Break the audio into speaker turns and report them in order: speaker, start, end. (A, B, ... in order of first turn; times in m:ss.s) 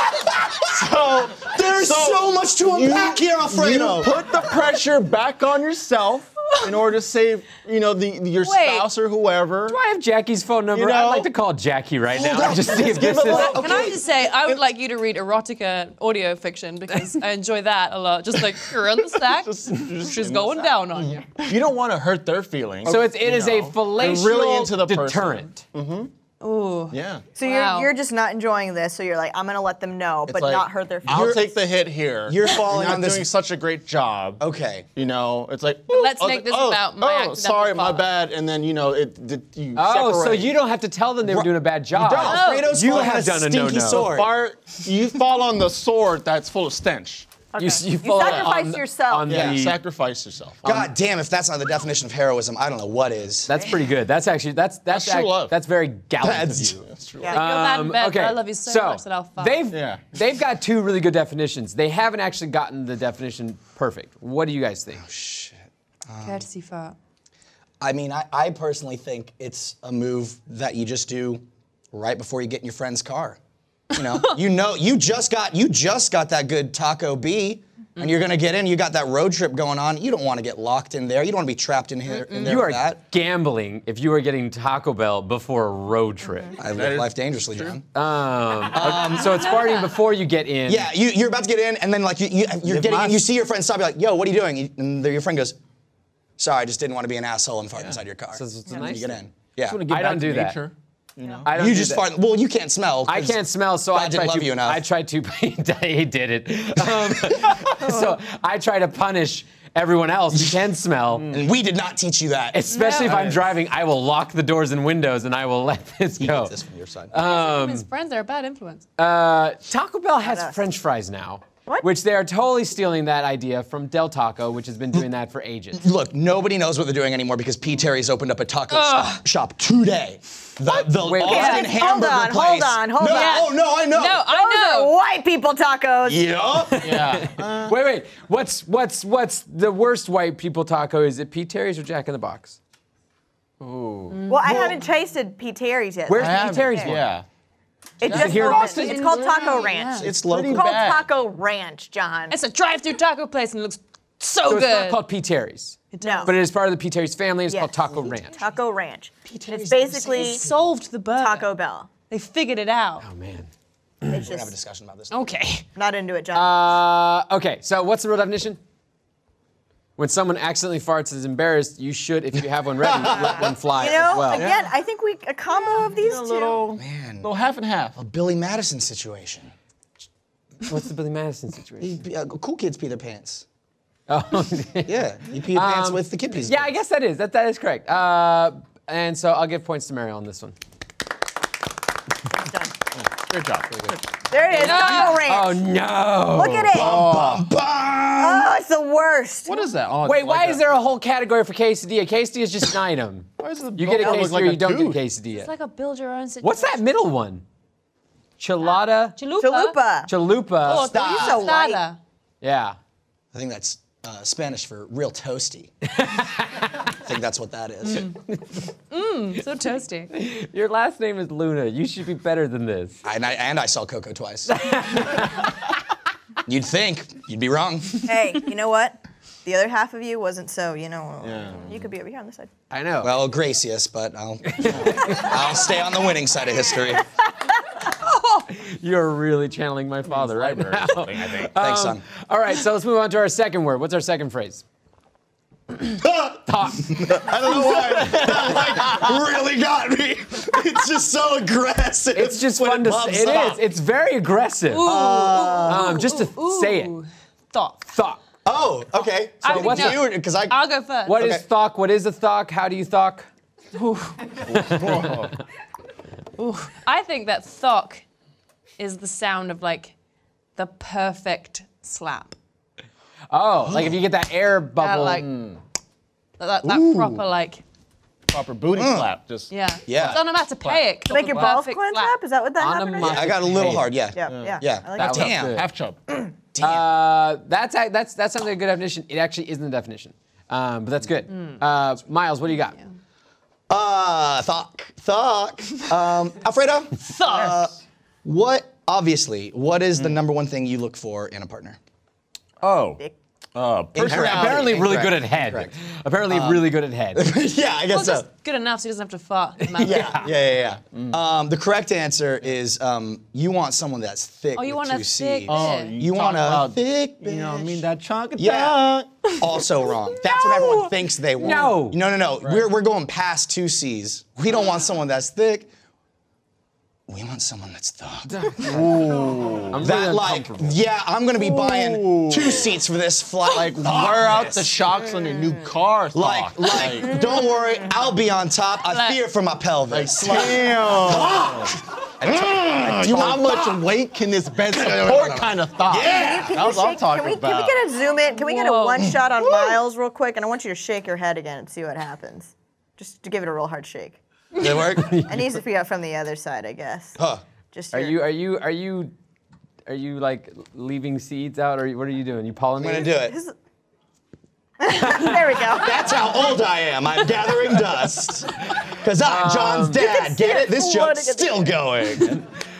0:00.6-0:09.8 A
0:01.4-0:04.2 B
0:08.4-0:08.9 C
0:09.6-0:13.6 D
0:10.7-0:11.3 A
0:12.1-0:14.0 B
0:12.4-0:13.9 A
0:13.3-0:21.5 C
0:19.2-0:26.1 A
0:22.8-0:25.6 D
0:26.4-0:27.9 C
0:26.9-0:27.2 A
0:27.4-0:31.4 E
0:30.3-0:34.4 A
0:31.1-0:31.4 B
0:32.3-0:33.3 B
0:34.4-0:34.9 B
0:34.9-0:40.6 A
0:35.9-0:38.0 C
0:39.7-0:44.1 D
0:41.2-0:44.3 B
0:42.2-0:42.8 C
0:43.8-0:47.3 A
0:47.5-0:49.5 E
0:47.6-0:49.8 D
0:48.2-0:48.5 A
0:49.3-0:50.6 A
0:50.6-0:50.9 D
0:50.6-0:53.5 B
0:53.5-1:05.0 D
0:54.9-0:55.5 A
0:56.2-0:56.8 B
0:56.8-0:57.4 A
0:57.3-0:59.6 C
0:59.7-1:00.0 A
1:05.0-1:06.4 B
1:06.2-1:07.0 C
1:07.8-1:13.4 B
1:13.9-1:23.0 B
1:22.4-1:26.6 D
1:26.6-1:27.8 B
1:26.7-1:27.8 A
1:27.9-1:30.9 D
1:28.7-1:29.4 B
1:29.0-1:29.9 C
1:30.7-1:35.6 B
1:32.6-1:33.2 A
1:36.4-1:39.8 B
1:38.3-1:40.6 D
1:39.7-1:41.5 A
1:41.4-1:42.1 D
1:41.5-1:43.4 B
1:43.0-1:51.3 D
1:43.9-1:44.8 B
1:51.1-1:51.4 A
1:51.3-1:52.6 B
1:52.5-1:56.6 D
1:52.7-1:53.3 C
1:53.0-1:53.4 A
1:56.2-1:57.1 B
1:57.1-1:57.8 D
1:57.2-1:58.8 C
1:59.0-2:05.8 D
2:00.2-2:00.6 E
2:05.8-2:14.2 B
2:08.7-2:09.2 C
2:11.0-2:11.7 D
2:11.2-2:13.5 E
2:13.0-2:14.9 C
2:14.2-2:16.3 E
2:16.0-2:16.9 B
2:16.7-2:22.6 D
2:16.8-2:17.8 A
2:23.6-2:24.2 A
2:24.1-2:24.8 C
2:24.3-2:27.0 E
2:24.4-2:24.8 B
2:26.1-2:27.1 D
2:26.1-2:27.2 A
2:28.0-2:32.4 E
2:28.0-2:28.7 A
2:28.0-2:29.4 D
2:28.3-2:30.1 C
2:30.0-2:30.7 B
2:30.0-2:31.0 A
2:32.3-2:35.0 C
2:34.5-2:38.4 D
2:35.9-2:36.3 C
2:36.0-2:36.3 E
2:37.5-2:40.4 E
2:39.2-2:40.5 B
2:40.0-2:41.5 C
2:41.2-2:41.9 E
2:42.1-2:43.0 C
2:43.0-2:43.5 D
2:44.1-2:44.5 E
2:44.2-2:45.1 B
2:45.1-2:45.6 C
2:45.7-2:46.7 E
2:46.3-2:48.6 D
2:50.0-2:54.5 D
2:52.8-2:53.5 B
2:53.4-2:56.6 E
2:54.3-2:54.7 A
2:55.9-2:58.0 A
2:56.8-2:57.3 B
2:58.0-2:59.5 B
3:00.6-3:02.0 D
3:01.8-3:03.4 B
3:04.1-3:05.0 D
3:04.8-3:06.7 B
3:05.5-3:10.5 D
3:12.4-3:12.7 E
3:12.9-3:14.1 A
3:14.3-3:15.6 E
3:14.5-3:16.8 D
3:14.6-3:15.2 C
3:16.3-3:17.0 E
3:16.7-3:18.6 B
3:16.8-3:17.5 A
3:18.2-3:19.6 E
3:19.4-3:20.7 A
3:20.0-3:25.5 D
3:23.4-3:25.0 A
3:25.3-3:26.8 C
3:26.4-3:27.4 D
3:28.4-3:29.2 D
3:29.2-3:29.8 C
3:29.4-3:30.1 E
3:30.1-3:30.9 D
3:30.6-3:32.0 C
3:30.7-3:31.5 B
3:30.9-3:31.8 E
3:32.4-3:32.8 D
3:33.3-3:35.7 B
3:36.0-3:36.7 D
3:37.0-3:38.2 B
3:38.9-3:40.1 C
3:40.1-3:43.0 D
3:43.0-3:44.5 B
3:44.5-3:45.4 D
3:46.4-3:48.0 B
3:48.0-3:52.5 E
3:51.2-3:51.9 A
3:52.7-3:53.1 D
3:53.0-3:57.0 B
3:54.5-3:55.3 D
3:58.5-4:04.6 D
4:00.1-4:01.5 A
4:01.6-4:02.0 B
4:06.0-4:13.6 B
4:06.4-4:07.1 D
4:07.7-4:09.0 A
4:12.1-4:14.9 D
4:14.7-4:17.9 C
4:14.8-4:16.0 B
4:15.6-4:16.9 D
4:17.9-4:18.2 D
4:18.4-4:20.6 B
4:19.4-4:21.2 C
4:19.4-4:20.0 D
4:21.0-4:23.3 D
4:21.1-4:21.4 B
4:23.7-4:24.3 C
4:24.4-4:25.3 A
4:24.5-4:25.3 D
4:26.4-4:28.0 C
4:28.8-4:29.9 C
4:30.6-4:32.4 C
4:33.3-4:35.2 D
4:34.8-4:35.3 C
4:35.1-4:35.6 A
4:36.4-4:37.6 C
4:36.6-4:37.2 B
4:38.3-4:40.8 A
4:38.7-4:39.1 B
4:39.5-4:42.2 C
4:39.9-4:40.2 B
4:41.1-4:45.4 E
4:42.6-4:43.9 D
4:43.0-4:45.6 B
4:44.3-4:44.6 A
4:45.0-4:45.7 D
4:45.2-4:46.0 A
4:46.5-4:46.9 B
4:46.6-4:52.8 D
4:53.7-4:57.7 B
4:57.0-4:57.5 C
4:57.3-4:57.7 A
4:58.2-5:01.8 B
5:02.6-5:03.0 A
5:03.5-5:04.8 A
5:03.9-5:05.7 B
5:04.0-5:07.3 D
5:06.3-5:08.3 B
5:07.9-5:10.3 C
5:09.7-5:10.3 D
5:09.8-5:17.8 B
5:10.9-5:11.2 A
5:14.5-5:15.9 C
5:15.4-5:19.3 A
5:18.4-5:18.8 B
5:19.3-5:20.9 C
5:19.4-5:25.7 B
5:21.4-5:21.8 A
5:21.4-5:22.0 D
5:22.4-5:22.7 A
5:27.1-5:28.9 B
5:28.3-5:29.0 D
5:28.6-5:29.8 A
5:29.7-5:30.8 D
5:29.8-5:34.7 B
5:31.5-5:32.7 A
5:33.5-5:37.2 A
5:36.1-5:43.8 B
5:37.2-5:37.5 E
5:38.8-5:39.2 C
5:39.9-5:41.8 A
5:42.4-5:47.8 A
5:44.7-5:46.6 B
5:46.0-5:54.2 E
5:48.3-5:49.2 C
5:54.6-5:55.2 B
5:54.9-5:55.5 D
5:55.1-5:57.2 E
5:57.2-5:57.4 B
5:57.7-5:58.2 E
5:57.9-5:59.1 D
5:59.9-6:03.1 D
6:02.8-6:03.4 B
6:03.2-6:03.5 E
6:04.8-6:06.1 E
6:05.7-6:12.4 B
6:09.2-6:10.0 D
6:09.9-6:11.8 E